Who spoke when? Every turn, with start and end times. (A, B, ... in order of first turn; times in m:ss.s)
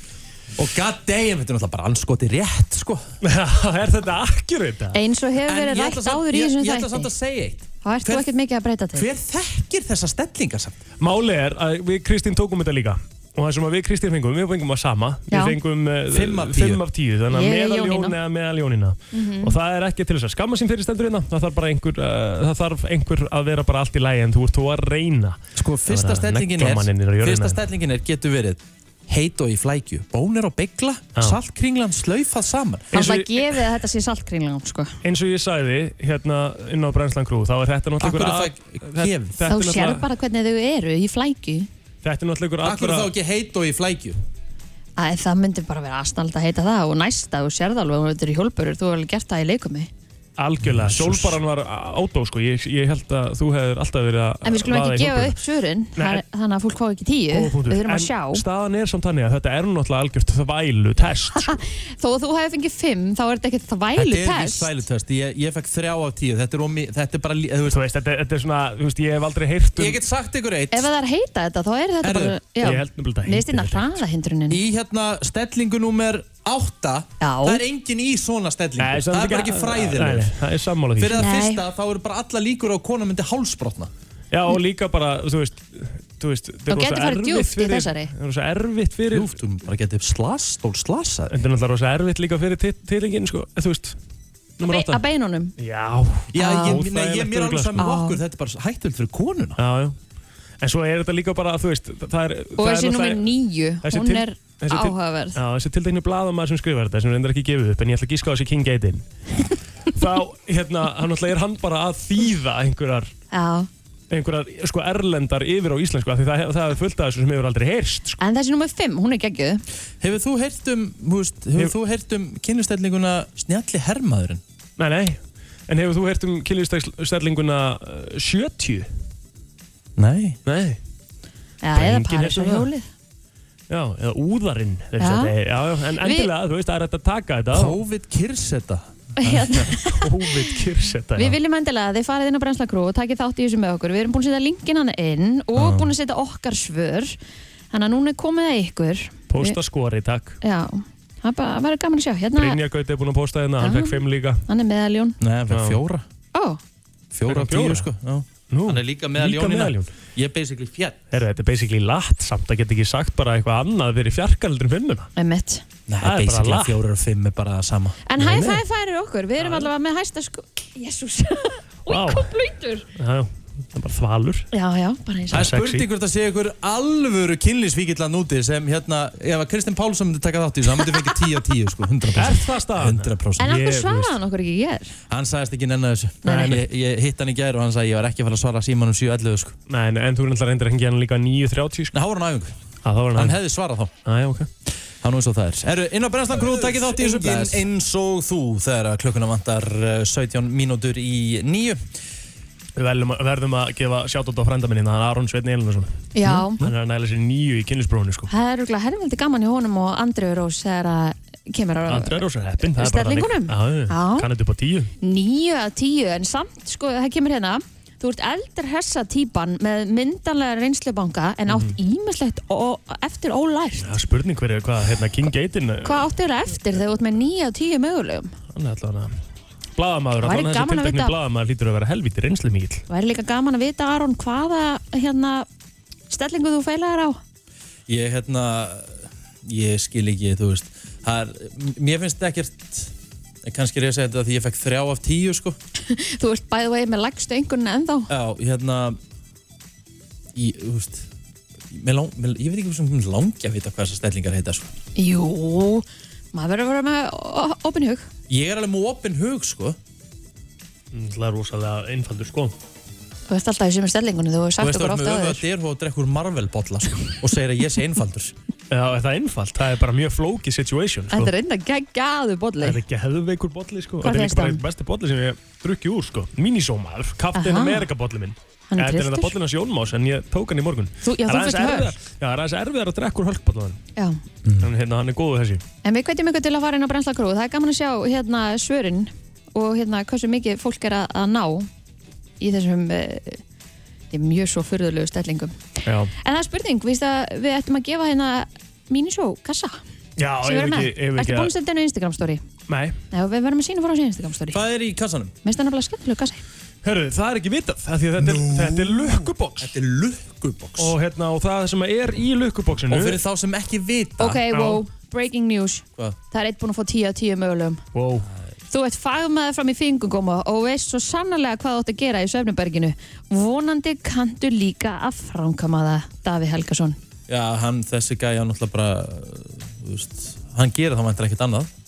0:00.6-0:03.0 A
0:03.2-0:05.0 B
0:04.9-0:07.1 C
0:05.4-0:08.3 A
0:07.8-0:09.1 C
0:08.9-0:10.8 A
0:11.0-0:27.6 B
0:15.3-0:15.6 C
0:16.1-0:16.8 A
0:17.3-0:18.2 C
0:19.1-0:19.5 C
0:25.6-0:32.9 A
0:32.9-0:33.6 B
0:32.9-0:35.0 C
0:35.0-0:40.0 B
0:38.0-0:39.4 A
0:39.5-0:41.7 C
0:42.0-0:43.1 B
0:42.6-0:44.2 A
0:45.0-0:49.9 C
0:50.4-0:55.4 B
0:50.6-0:51.4 A
0:54.4-0:58.4 C
0:56.0-0:56.2 B
0:57.3-1:01.5 B
1:01.4-1:04.7 C
1:03.9-1:07.8 A
1:07.7-1:10.0 B
1:09.8-1:10.9 A
1:10.7-1:14.6 C
1:12.0-1:12.4 A
1:12.6-1:14.0 B
1:14.5-1:20.3 A
1:17.2-1:17.6 C
1:18.8-1:21.2 B
1:21.0-1:23.9 A
1:21.2-1:21.6 C
1:24.3-1:29.3 B
1:26.7-1:28.1 C
1:29.1-1:31.3 A
1:31.3-1:34.0 B
1:34.6-1:35.0 B
1:34.6-1:35.5 C
1:35.6-1:37.9 B
1:36.3-1:39.6 A
1:36.4-1:36.8 C
1:37.8-1:38.2 C
1:39.6-1:40.0 B
1:40.6-1:43.3 B
1:42.6-1:45.4 C
1:43.8-1:49.0 B
1:49.9-1:53.1 B
1:53.3-1:53.7 C
1:54.1-1:58.2 B
1:58.2-1:59.6 C
2:00.0-2:04.4 A
2:04.8-2:08.9 B
2:10.0-2:10.4 A
2:10.4-2:10.8 B
2:11.6-2:12.9 C
2:11.7-2:12.7 B
2:13.7-2:17.8 B
2:15.0-2:15.3 C
2:16.0-2:16.3 C
2:17.5-2:19.7 A
2:19.2-2:20.4 C
2:19.8-2:21.4 B
2:21.2-2:27.2 C
2:25.6-2:25.9 A
2:27.7-2:29.6 C
2:29.3-2:30.4 B
2:30.4-2:32.6 C
2:32.4-2:34.4 B
2:33.6-2:35.2 C
2:35.2-2:36.0 A
2:35.5-2:35.8 B
2:36.3-2:36.6 C
2:37.1-2:41.0 A
2:37.3-2:37.9 B
2:38.5-2:39.9 B
2:41.1-2:45.1 B
2:45.2-2:45.6 C
2:45.9-2:48.0 A
2:46.0-2:46.8 B
2:48.1-2:52.8 C
2:48.2-2:48.6 B
2:49.4-2:49.7 B
2:51.9-2:52.3 B
2:52.9-2:54.5 B
2:54.5-2:55.5 C
2:55.3-3:03.5 A
2:55.3-2:55.8 B
3:02.1-3:04.1 B
3:03.4-3:05.0 C
3:05.1-3:09.6 A
3:06.2-3:06.6 C
3:06.2-3:06.6 B
3:09.7-3:11.9 B
3:11.9-3:12.5 A
3:12.8-3:13.4 B
3:13.1-3:13.9 A
3:14.0-3:14.5 B
3:15.0-3:21.8 A
3:16.4-3:17.6 B
3:22.8-3:28.3 B
3:26.1-3:26.6 C
3:28.3-3:34.3 C
3:31.9-3:34.9 B
3:35.0-3:43.9 C
3:41.5-3:41.8 B
3:43.8-3:46.1 B
3:45.8-3:48.3 C
3:48.5-3:49.1 B
3:49.8-3:52.8 B
3:50.2-3:51.1 C
3:52.9-3:55.5 C
3:56.1-3:57.2 C
3:57.9-4:02.9 A
4:03.4-4:05.6 A
4:05.8-4:08.1 C
4:08.1-4:09.0 A
4:10.3-4:11.1 A
4:11.7-4:14.7 A
4:15.0-4:18.1 C
4:18.3-4:19.8 A
4:20.9-4:22.5 B
4:23.3-4:25.4 C
4:24.6-4:28.3 A
4:28.7-4:31.3 B
4:31.1-4:32.8 C
4:32.6-4:43.8 B
4:34.0-4:34.6 C
4:37.3-4:37.9 C
4:38.7-4:39.3 C
4:41.0-4:41.9 C
4:44.4-4:44.7 A
4:44.6-4:45.6 B
4:45.8-4:51.7 C
4:52.4-4:53.4 C
4:54.1-4:59.8 C
4:55.8-4:56.1 B
5:00.2-5:01.5 B
5:00.4-5:02.4 C
5:02.7-5:03.0 B
5:03.1-5:04.6 C
5:04.5-5:05.3 A
5:05.4-5:06.4 C
5:06.8-5:09.7 B
5:08.2-5:10.9 A
5:10.8-5:13.2 B
5:12.9-5:14.4 A
5:14.2-5:17.8 C
5:14.5-5:14.8 B
5:17.9-5:18.3 B
5:18.7-5:27.0 C
5:27.3-5:31.7 A